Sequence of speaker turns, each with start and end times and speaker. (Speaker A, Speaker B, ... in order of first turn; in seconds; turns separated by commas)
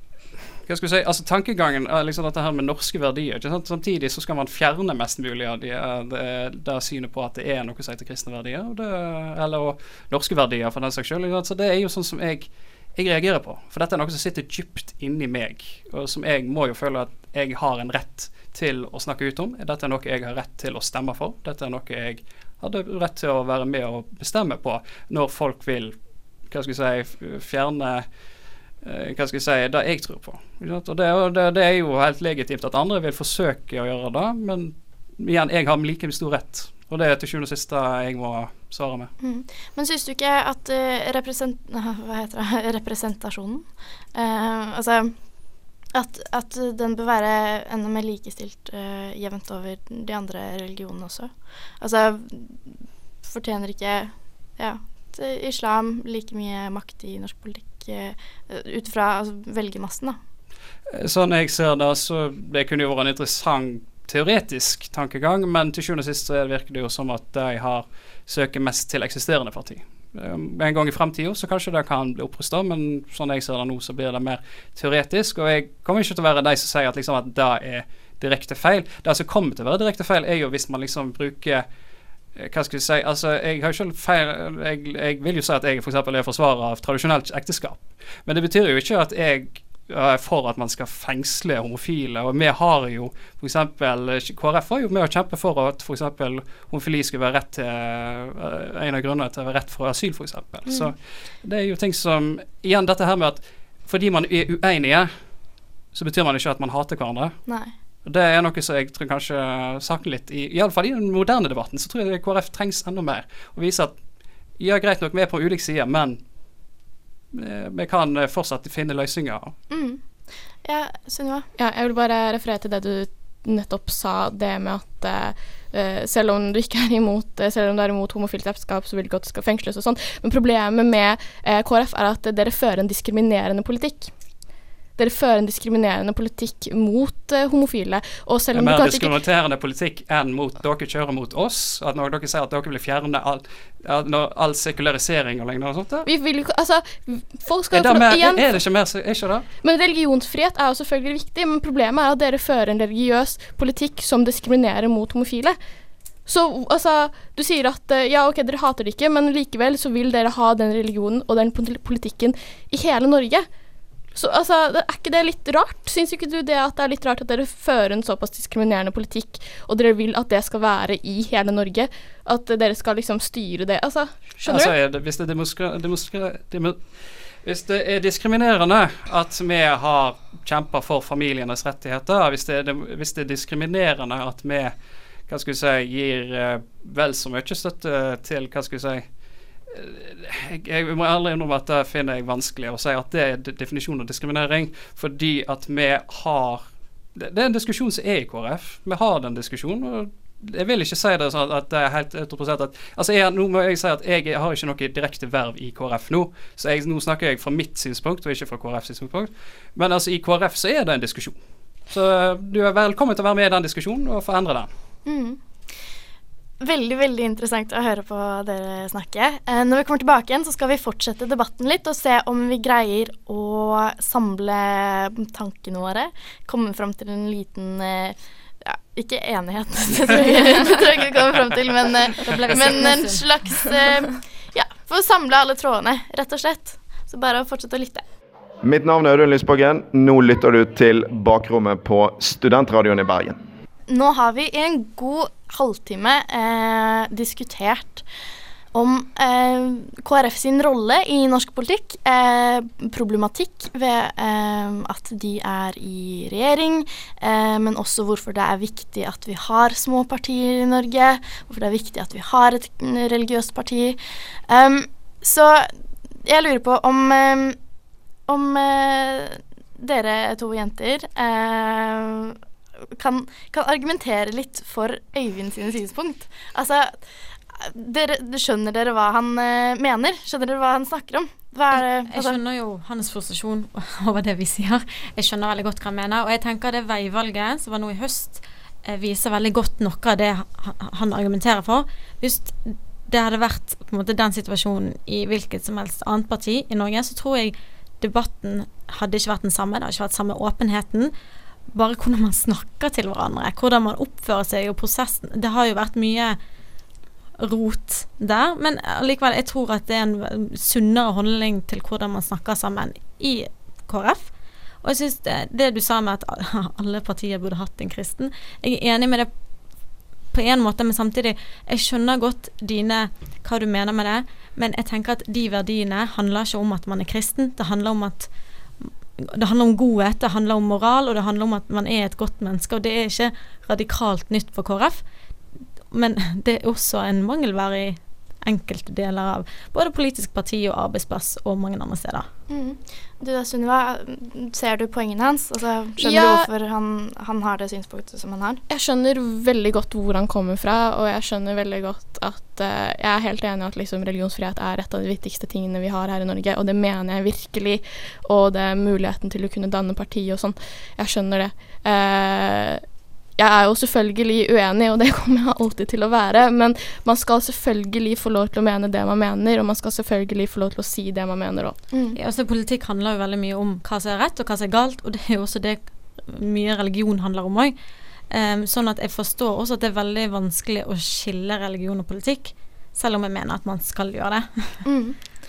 Speaker A: 0.7-25.9, Speaker A: 26.5-28.1, Speaker A: 28.8-39.1, Speaker B: 39.2-45.1, Speaker B: 45.9-52.6, Speaker B: 53.2-60.2, Speaker A: 60.9-81.6, Speaker A: 82.3-105.1, Speaker A: 105.9-107.3, Speaker B: 107.5-107.7, Speaker A: 108.0-114.0, Speaker A: 114.6-116.2, Speaker A: 117.3-119.5, Speaker B: 119.7-120.0, Speaker B: 120.6-121.5, Speaker C: 121.6-134.1, Speaker C: 135.0-139.1, Speaker A: 138.5-146.1, Speaker C: 146.1-148.5, Speaker A: 147.7-149.4, Speaker C: 149.6-155.6, Speaker C: 156.3-163.4, Speaker C: 164.1-174.7, Speaker A: 174.4-176.8, Speaker A: 177.4-184.7, Speaker A: 185.3-189.1, Speaker A: 189.7-196.6, Speaker A: 197.1-214.7, Speaker B: 215.1-215.4, Speaker B: 216.6-238.0, Speaker D: 232.2-233.2, Speaker E: 238.6-243.4, Speaker B: 243.9-248.0, Speaker B: 248.7-265.7, Speaker B: 266.2-267.6, Speaker B: 268.3-272.4, Speaker B: 272.9-277.0, Speaker B: 277.5-282.4, Speaker D: 281.7-301.1, Speaker D: 301.7-306.4, Speaker D: 307.4-314.3, Speaker D: 314.8-319.3, Speaker D: 320.3-328.3, Speaker D: 328.8-335.0, Speaker D: 335.9-342.3, Speaker B: 342.5-348.6, Speaker C: 346.0-346.5, Speaker C: 348.7-362.8, Speaker C: 363.4-371.8, Speaker B: 371.9-372.2, Speaker D: 372.1-377.7, Speaker D: 378.3-384.7, Speaker B: 384.8-385.2